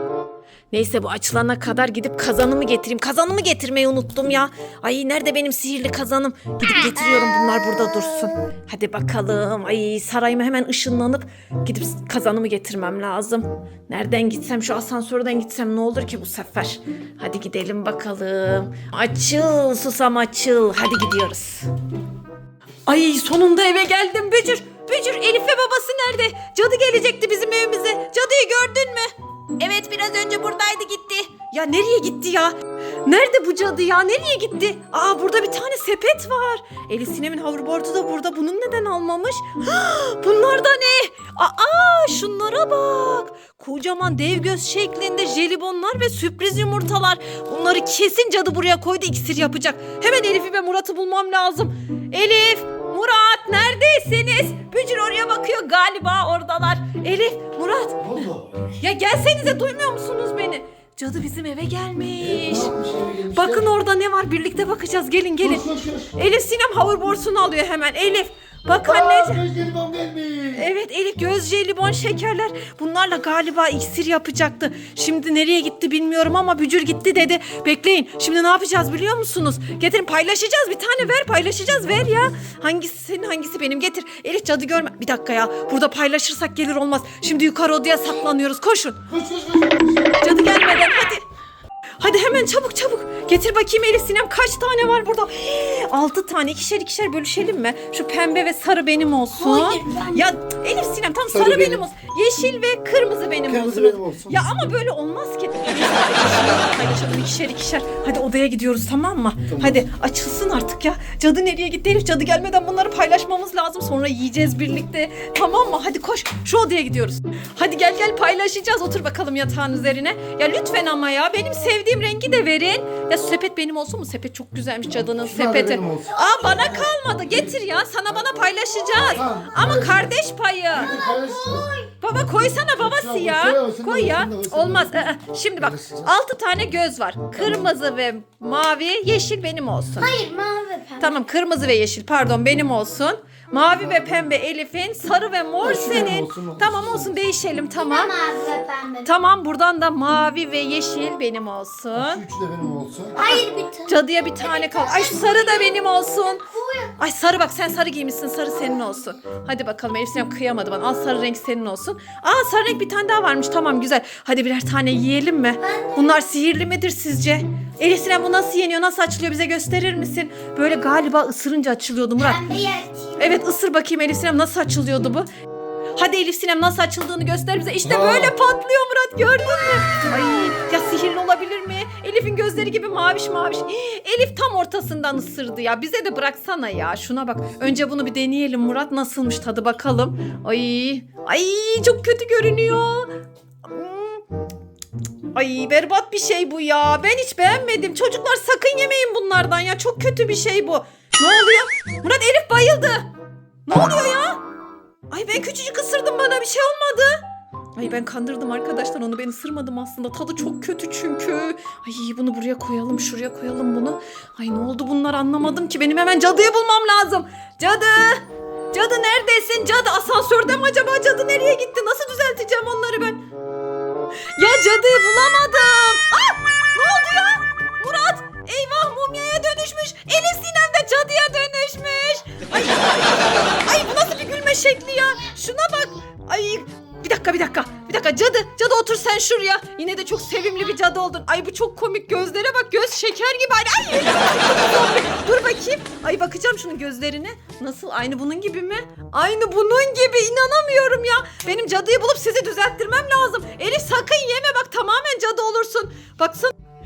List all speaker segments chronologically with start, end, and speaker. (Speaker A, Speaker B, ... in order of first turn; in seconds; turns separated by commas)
Speaker A: 0.7-21.7, Speaker A: 22.9-32.5, Speaker A: 33.0-62.7, Speaker B: 58.0-58.6, Speaker B: 62.2-63.7, Speaker A: 63.3-69.4, Speaker B: 65.4-66.1, Speaker B: 68.8-70.7, Speaker A: 70.5-89.0, Speaker B: 89.1-90.4, Speaker A: 90.2-91.2, Speaker A: 92.0-130.9, Speaker C: 99.3-100.2, Speaker B: 101.3-101.8, Speaker B: 103.5-104.5, Speaker B: 109.5-109.8, Speaker B: 125.0-126.1, Speaker C: 126.0-126.9, Speaker B: 129.1-130.1, Speaker B: 130.7-131.7, Speaker C: 130.7-131.9, Speaker A: 132.0-140.2, Speaker B: 132.8-135.0, Speaker B: 135.6-136.2, Speaker B: 137.4-137.7, Speaker C: 140.0-141.2, Speaker A: 141.0-148.1, Speaker B: 143.8-144.3, Speaker B: 145.6-147.2, Speaker C: 147.7-149.1, Speaker A: 149.0-152.2, Speaker B: 151.9-153.2, Speaker C: 153.1-156.9, Speaker A: 153.2-156.4, Speaker A: 157.0-172.4, Speaker C: 165.6-166.2, Speaker C: 172.2-173.4, Speaker A: 173.2-175.3, Speaker A: 175.9-194.2, Speaker B: 177.8-178.3, Speaker A: 195.3-203.1, Speaker A: 203.7-204.4, Speaker A: 205.1-207.2, Speaker A: 207.8-223.2, Speaker A: 224.3-256.5